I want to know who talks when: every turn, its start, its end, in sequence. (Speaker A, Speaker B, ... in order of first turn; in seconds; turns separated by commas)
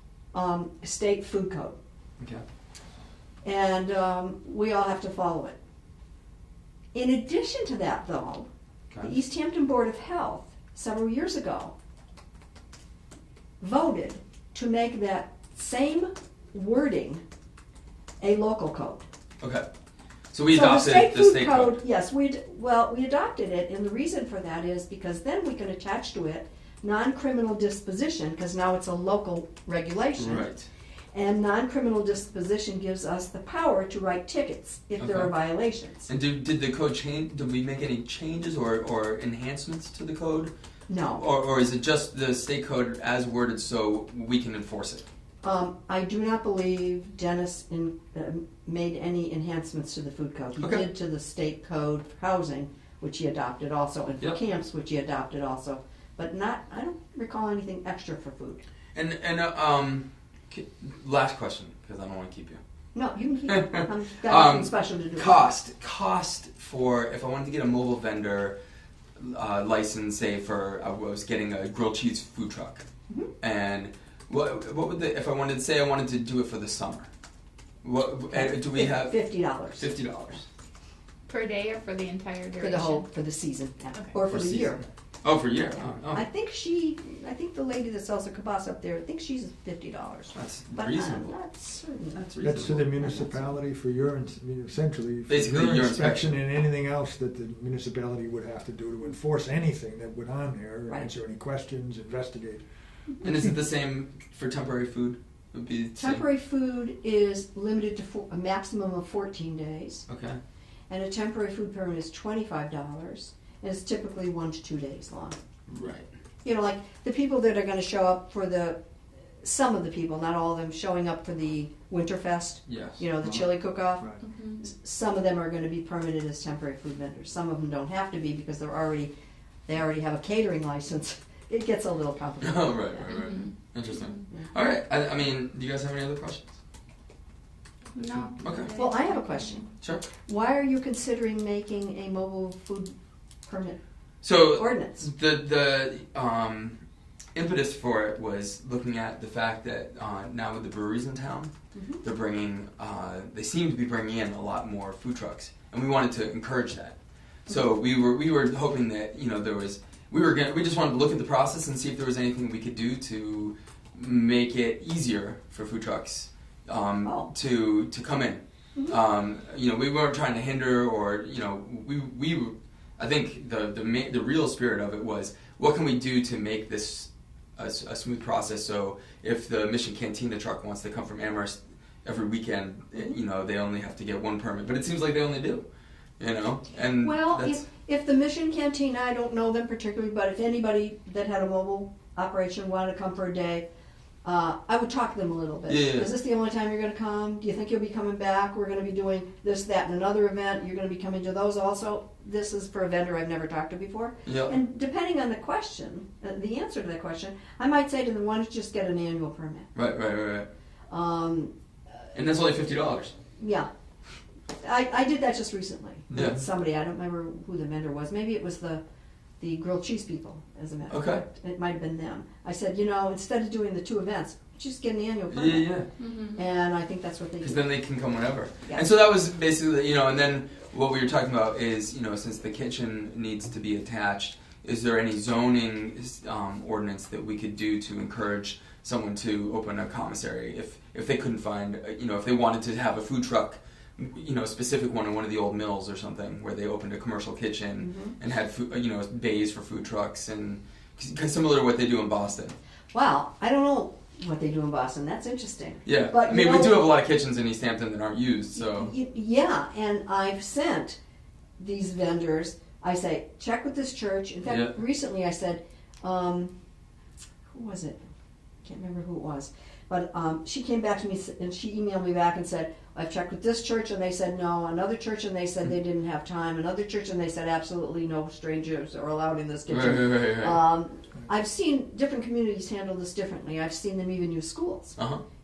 Speaker A: 0.3-1.8, Speaker A: 3.4-5.6, Speaker A: 6.9-8.5, Speaker A: 9.0-11.7, Speaker A: 13.6-17.2, Speaker A: 18.2-19.1, Speaker B: 19.4-19.7, Speaker B: 20.3-21.8, Speaker A: 20.5-30.5, Speaker B: 30.2-30.7, Speaker A: 31.1-36.1, Speaker B: 35.0-35.3, Speaker B: 36.1-40.5, Speaker A: 40.9-41.2, Speaker B: 41.1-45.0, Speaker A: 45.4-58.6, Speaker B: 50.6-50.9, Speaker B: 59.0-62.6, Speaker A: 62.9-65.5, Speaker B: 63.5-68.6, Speaker B: 69.2-72.8, Speaker B: 73.4-77.1, Speaker B: 77.8-79.2, Speaker A: 78.3-79.9, Speaker B: 79.7-80.5, Speaker C: 81.3-83.1, Speaker A: 82.6-84.8, Speaker B: 84.3-86.2, Speaker A: 86.1-92.2, Speaker B: 90.3-91.3, Speaker B: 92.1-93.0, Speaker D: 92.4-102.7, Speaker A: 92.8-93.5, Speaker B: 95.3-96.4, Speaker B: 103.2-106.2, Speaker A: 106.0-110.0, Speaker B: 110.1-110.4, Speaker A: 110.9-115.4, Speaker B: 115.7-116.1, Speaker A: 116.4-118.8, Speaker A: 119.4-129.1, Speaker B: 122.7-123.0, Speaker D: 123.2-124.2, Speaker C: 124.2-124.6, Speaker A: 129.7-133.0, Speaker B: 132.4-136.5, Speaker C: 133.1-134.2, Speaker C: 137.9-139.6, Speaker B: 138.3-138.8, Speaker A: 138.7-139.7, Speaker A: 140.3-142.9, Speaker A: 143.5-143.8, Speaker B: 144.2-146.8, Speaker A: 144.4-145.1, Speaker B: 147.3-185.7, Speaker A: 151.8-152.0, Speaker A: 167.1-167.3, Speaker B: 186.2-187.6, Speaker A: 187.0-193.7, Speaker A: 194.2-209.7, Speaker B: 195.7-196.1, Speaker B: 204.3-204.6, Speaker B: 209.8-210.5, Speaker A: 210.9-211.5, Speaker B: 212.1-213.1, Speaker A: 213.4-213.7, Speaker A: 214.6-218.8, Speaker D: 216.1-216.4, Speaker B: 216.1-216.4, Speaker A: 219.4-225.8, Speaker B: 220.9-221.2, Speaker B: 225.3-225.9, Speaker C: 226.0-226.4, Speaker A: 226.3-227.7, Speaker B: 227.4-252.6, Speaker A: 247.8-248.2, Speaker A: 252.9-256.9, Speaker B: 255.9-258.9, Speaker A: 258.6-261.0, Speaker A: 261.6-266.5, Speaker B: 264.5-264.8, Speaker A: 267.5-268.1, Speaker A: 268.6-285.0, Speaker B: 279.7-280.6, Speaker B: 285.0-285.2